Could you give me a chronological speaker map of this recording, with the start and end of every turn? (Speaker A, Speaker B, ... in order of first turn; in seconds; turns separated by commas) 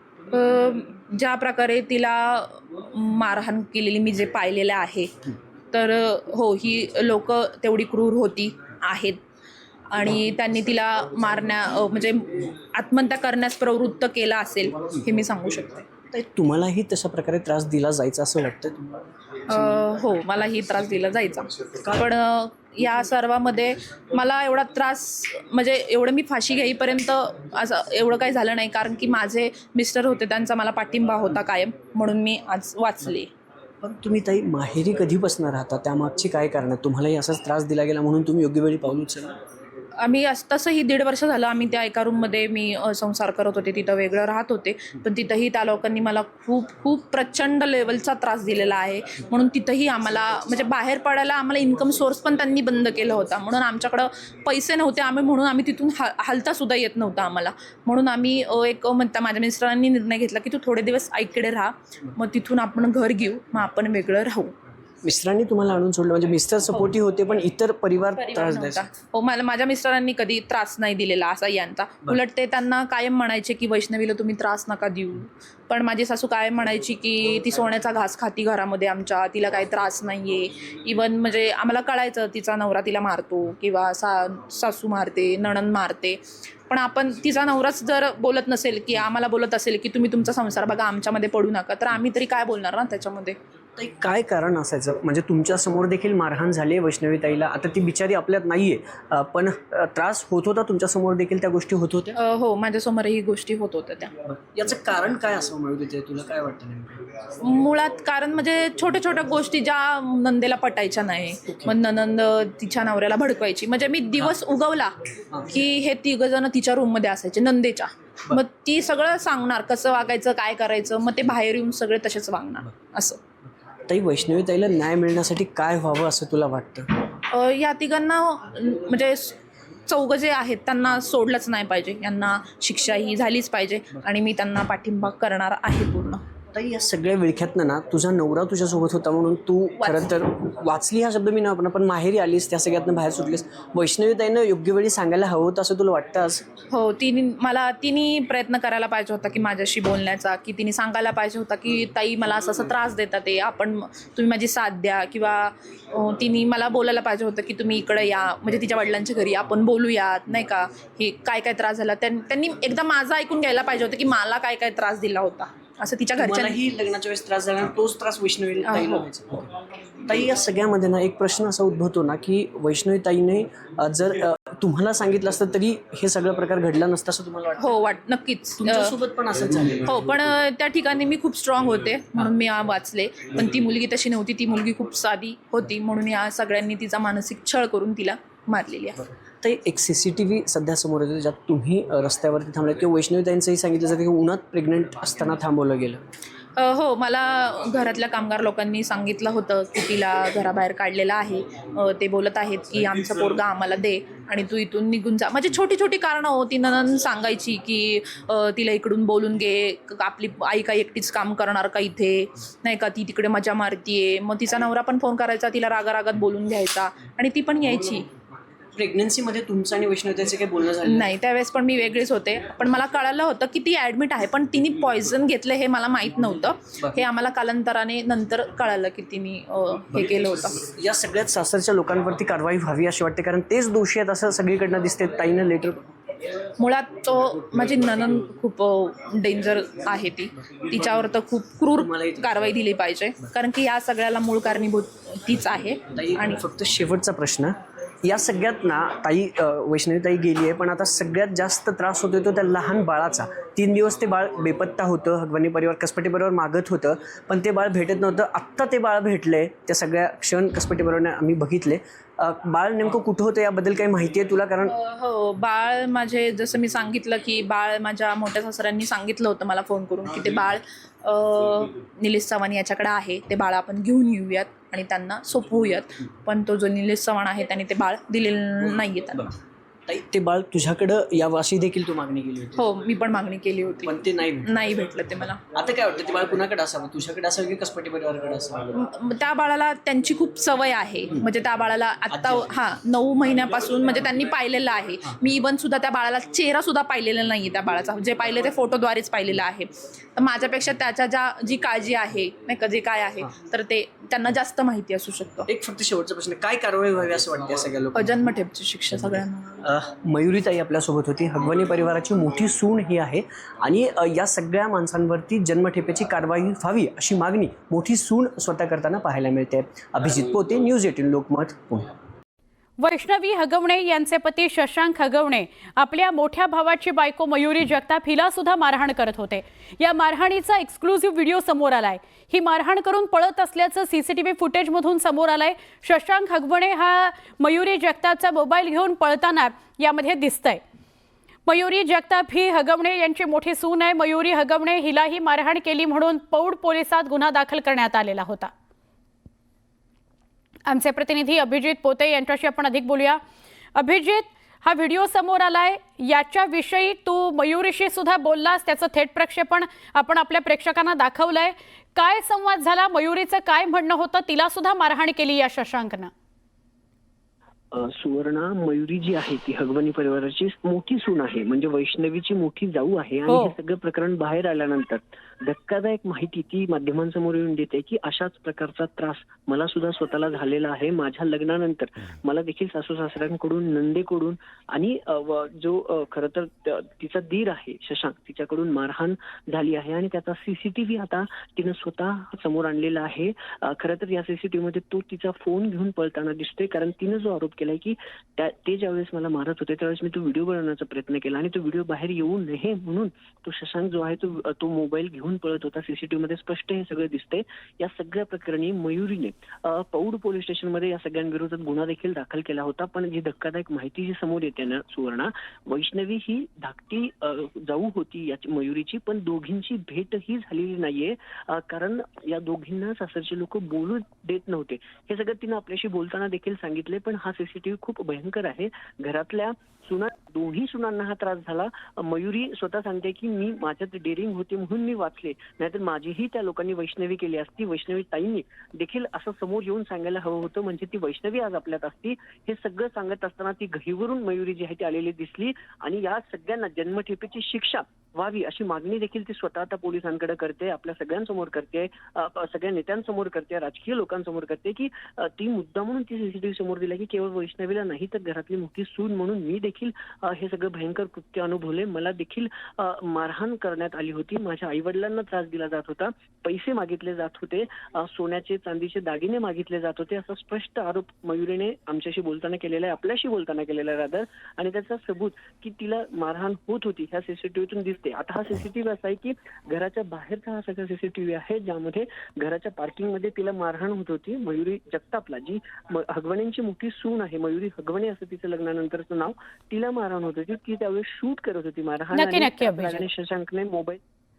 Speaker A: 0.3-5.1, Speaker A: 5.7-9.2, Speaker A: 9.9-15.8, Speaker B: 16.1-18.8, Speaker A: 19.5-33.3, Speaker B: 33.8-39.3, Speaker A: 40.0-64.5, Speaker B: 65.0-68.8, Speaker A: 68.1-93.4, Speaker B: 93.8-102.2, Speaker A: 102.2-104.1, Speaker B: 104.2-107.0, Speaker A: 107.4-114.9, Speaker A: 115.5-123.2, Speaker B: 123.9-126.9, Speaker A: 127.3-129.3, Speaker A: 129.9-136.2, Speaker B: 136.5-146.4, Speaker A: 139.8-140.1, Speaker A: 146.7-166.6, Speaker B: 166.2-169.5, Speaker A: 168.7-169.0, Speaker B: 170.1-177.7, Speaker A: 177.6-178.9, Speaker B: 178.6-179.9, Speaker A: 179.8-189.0, Speaker B: 189.4-196.0, Speaker A: 196.6-218.1, Speaker B: 218.8-221.1, Speaker A: 220.8-230.6, Speaker B: 230.7-235.8, Speaker A: 236.6-246.4, Speaker B: 241.7-242.3, Speaker B: 245.9-264.7, Speaker A: 264.6-279.3, Speaker B: 279.9-282.6, Speaker A: 282.6-285.4, Speaker B: 283.8-284.6, Speaker B: 285.5-288.7, Speaker A: 288.7-305.5, Speaker B: 292.1-292.5, Speaker B: 305.5-308.1, Speaker A: 307.9-309.7, Speaker B: 309.6-321.9, Speaker C: 322.8-340.6, Speaker C: 341.4-348.5, Speaker C: 350.6-353.2, Speaker C: 353.7-366.1, Speaker D: 367.7-494.0, Speaker C: 373.3-373.5, Speaker C: 492.1-493.0